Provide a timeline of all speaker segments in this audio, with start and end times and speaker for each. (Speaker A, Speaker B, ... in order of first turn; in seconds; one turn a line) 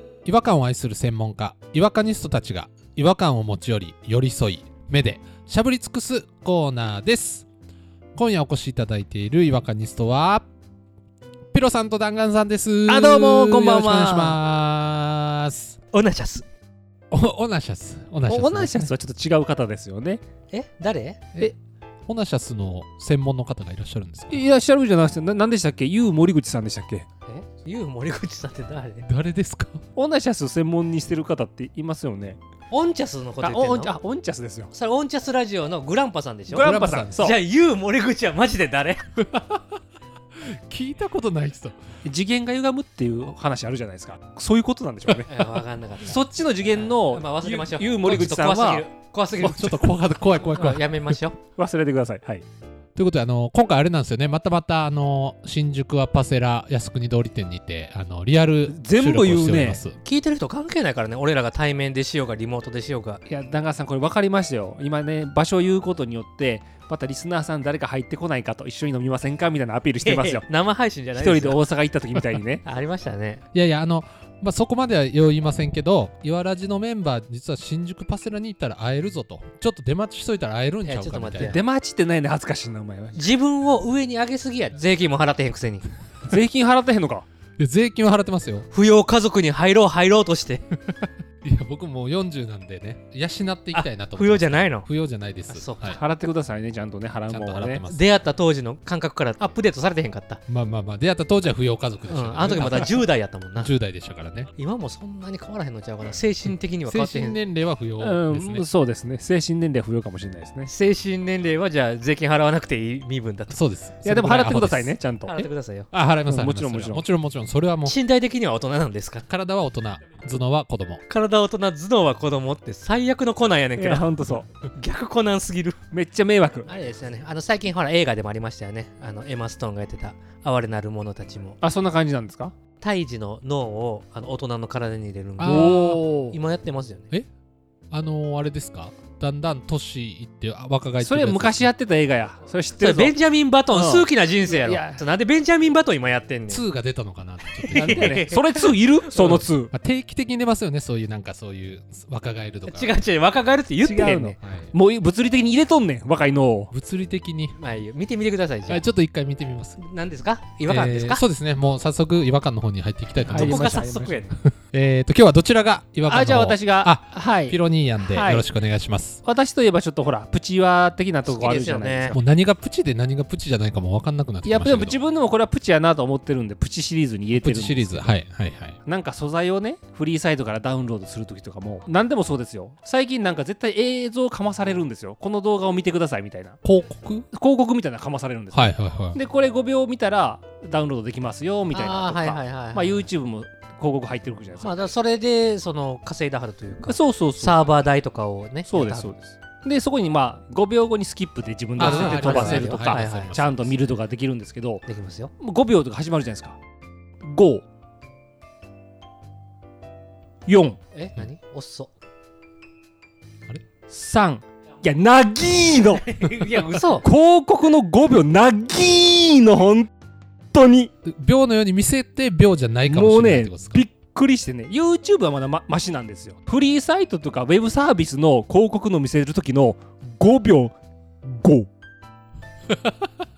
Speaker A: 0.2-7.5
Speaker A: 8.1-10.5
Speaker A: 11.5-15.8
Speaker B: 12.9-14.4
Speaker C: 15.9-16.4
Speaker A: 17.1-18.9
Speaker B: 18.2-20.2
Speaker C: 20.5-21.2
Speaker A: 22.1-24.4
Speaker B: 24.3-27.0
Speaker C: 27.2-29.1
Speaker A: 29.1-29.8
Speaker B: 29.9-32.4
Speaker C: 32.7-33.9
Speaker B: 33.4-34.7
Speaker C: 34.7-39.0
Speaker B: 36.5-37.4
Speaker A: 36.6-37.3
Speaker A: 39.2-39.7
Speaker A: 40.4-41.8
Speaker B: 42.0-45.3
Speaker C: 45.2-51.4
Speaker B: 46.0-48.9
Speaker A: 49.4-51.2
Speaker B: 51.6-52.4
Speaker A: 53.0-60.0
Speaker B: 58.7-59.8
Speaker C: 60.0-63.2
Speaker B: 63.3-70.5
Speaker C: 70.0-71.6
Speaker B: 71.1-72.6
Speaker C: 72.6-73.4
Speaker A: 73.5-81.6
Speaker C: 80.8-81.6
Speaker B: 81.4-83.2
Speaker C: 83.1-85.9
Speaker B: 86.3-87.2
Speaker A: 87.6-88.7
Speaker C: 88.7-90.6
Speaker A: 91.4-96.0
Speaker C: 93.7-94.9
Speaker C: 95.5-96.0
Speaker B: 95.8-97.8
Speaker A: 97.3-98.1
Speaker C: 97.8-100.4
Speaker A: 100.5-103.0
Speaker C: 102.1-103.7
Speaker A: 103.6-104.5
Speaker C: 104.6-107.4
Speaker A: 106.8-108.7
Speaker B: 108.0-110.7
Speaker C: 110.7-113.6
Speaker A: 113.5-115.0
Speaker B: 114.0-115.5
Speaker C: 115.2-115.9
Speaker A: 115.9-117.9
Speaker B: 116.2-117.0
Speaker C: 117.8-119.2
Speaker A: 119.3-121.0
Speaker C: 121.1-124.1
Speaker B: 123.8-124.5
Speaker C: 124.7-125.8
Speaker B: 125.9-126.7
Speaker C: 126.7-131.6
Speaker B: 131.6-132.5
Speaker C: 132.8-137.1
Speaker A: 135.4-136.0
Speaker B: 135.4-136.4
Speaker A: 137.9-141.7
Speaker B: 141.0-143.1
Speaker C: 142.8-146.6
Speaker B: 143.7-145.0
Speaker A: 146.5-148.2
Speaker C: 147.6-148.7
Speaker B: 147.7-149.7
Speaker A: 149.2-152.9
Speaker C: 152.7-154.4
Speaker B: 153.8-156.7
Speaker A: 154.4-154.7
Speaker A: 156.7-157.6
Speaker C: 157.6-158.8
Speaker A: 158.7-159.8
Speaker C: 159.8-161.2
Speaker A: 160.7-163.8
Speaker B: 163.2-164.3
Speaker C: 163.3-164.3
Speaker A: 164.4-169.2
Speaker B: 166.1-168.5
Speaker B: 169.2-172.2
Speaker C: 171.3-172.1
Speaker A: 172.1-175.0
Speaker B: 174.4-178.2
Speaker A: 177.3-178.8
Speaker B: 178.8-186.6
Speaker A: 186.6-187.3
Speaker B: 187.3-194.7
Speaker A: 188.5-189.2
Speaker C: 191.7-193.0
Speaker C: 194.6-199.1
Speaker B: 196.9-197.7
Speaker B: 198.7-204.8
Speaker C: 201.8-203.4
Speaker A: 201.8-203.8
Speaker C: 204.8-205.3
Speaker B: 205.4-206.6
Speaker B: 207.2-207.6
Speaker B: 210.5-210.8
Speaker C: 210.9-211.9
Speaker B: 213.9-216.1
Speaker C: 216.0-217.1
Speaker B: 217.0-219.9
Speaker B: 220.5-220.9
Speaker A: 221.0-223.8
Speaker B: 222.9-231.7
Speaker A: 232.7-233.0